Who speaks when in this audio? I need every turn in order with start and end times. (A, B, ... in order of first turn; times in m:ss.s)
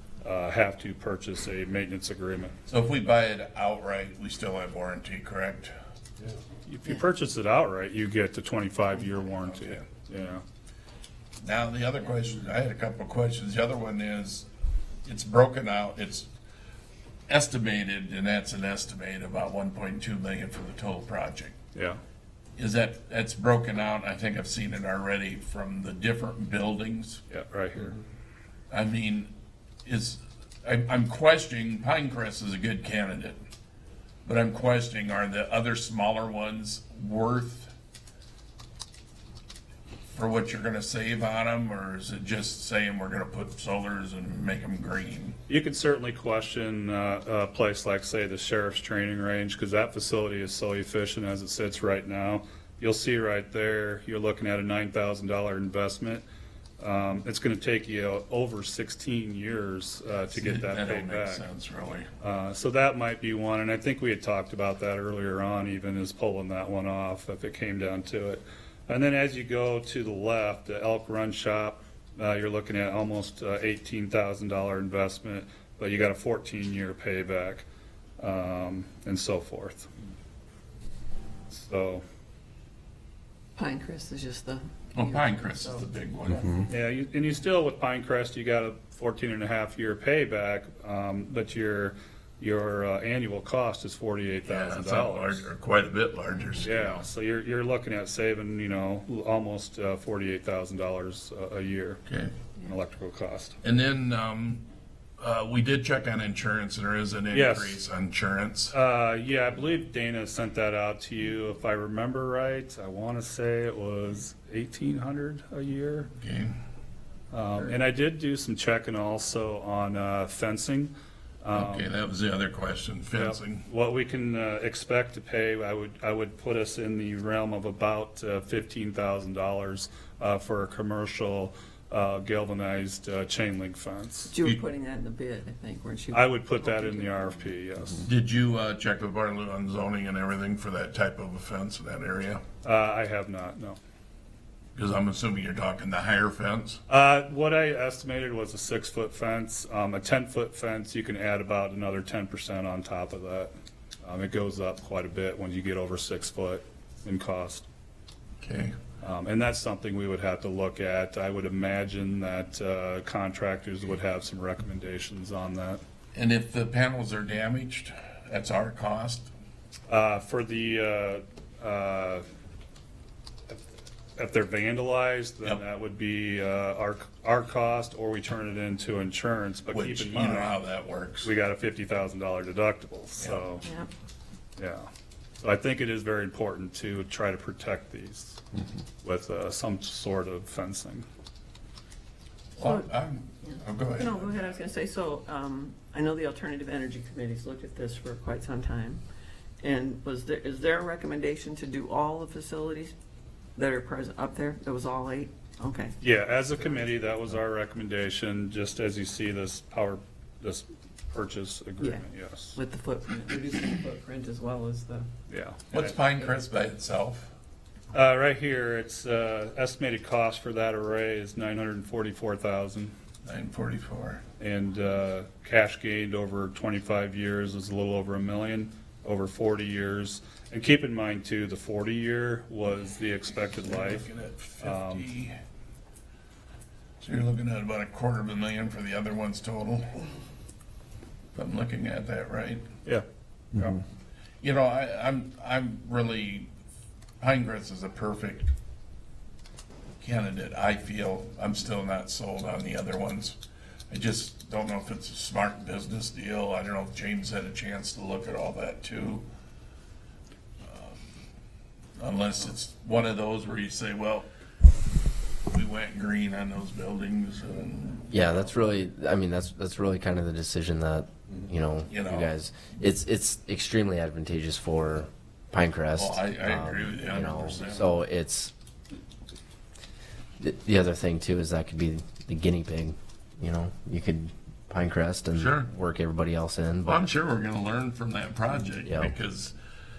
0:00.2-0:02.5 A
0:02.7-0:05.7 B
0:06.6-0:10.4 A
0:09.4-0:09.8 B
0:11.4-0:14.4 B
0:15.0-0:16.3 B
0:17.3-0:21.6 B
0:21.7-0:22.0 A
0:22.6-0:27.2 B
0:27.3-0:27.9 A
0:28.7-0:29.3 B
0:29.8-0:33.4 B
0:34.2-0:37.7 B
0:40.1-0:45.4 B
0:45.5-0:56.2 A
0:56.8-1:01.4 A
1:00.3-1:02.1 B
1:02.2-1:17.6 A
1:18.2-1:19.9 A
1:21.5-1:22.0 A
1:23.6-1:26.7 C
1:24.9-1:26.5 B
1:26.7-1:35.5 A
1:34.4-1:37.1 B
1:36.6-1:42.0 A
1:42.1-1:42.4 B
1:42.6-1:43.6 A
1:43.6-1:44.6 B
1:45.2-1:48.7 B
1:47.3-1:47.8 A
1:48.7-1:56.1 A
1:56.2-1:56.5 B
1:57.3-2:00.9 A
2:01.4-2:01.9 A
2:01.5-2:03.7 B
2:03.2-2:14.3 A
2:14.3-2:17.4 C
2:16.1-2:18.1 A
2:18.0-2:22.4 B
2:22.6-2:23.8 A
2:24.8-2:26.8 B
2:26.9-2:33.5 A
2:34.0-2:37.6 A
2:38.4-2:38.7 B
2:39.0-2:45.8 A
2:46.1-2:49.3 B
2:49.9-2:52.2 A
2:54.2-3:00.6 A
2:59.7-3:01.3 B
3:01.2-3:03.6 A
3:03.2-3:03.5 B
3:04.6-3:04.9 A
3:05.4-3:08.4 A
3:09.0-3:11.0 A
3:12.6-3:14.6 B
3:12.6-3:12.9 C
3:13.4-3:19.0 C
3:19.6-3:22.9 C
3:23.6-3:26.0 C
3:26.0-3:32.6 A
3:31.8-3:35.1 C
3:35.3-3:35.9 A
3:35.7-3:37.3 B
3:37.9-3:42.9 A
3:43.2-3:44.2 B
3:44.4-3:54.0 A
3:53.6-3:55.4 B
3:54.6-3:55.1 A
3:57.0-3:59.9 B
4:01.3-4:02.6 B
4:02.8-4:03.8 A
4:04.4-4:06.5 B
4:07.2-4:08.5 B
4:10.0-4:13.4 B
4:13.9-4:19.2 B
4:20.6-4:21.0 B
4:22.0-4:24.3 B
4:25.5-4:28.6 B
4:28.1-4:38.5 D
4:31.9-4:32.3 B
4:35.9-4:38.0 B
4:40.4-4:47.1 D
4:45.3-4:45.7 B
4:46.8-4:49.5 B
4:48.8-4:49.1 D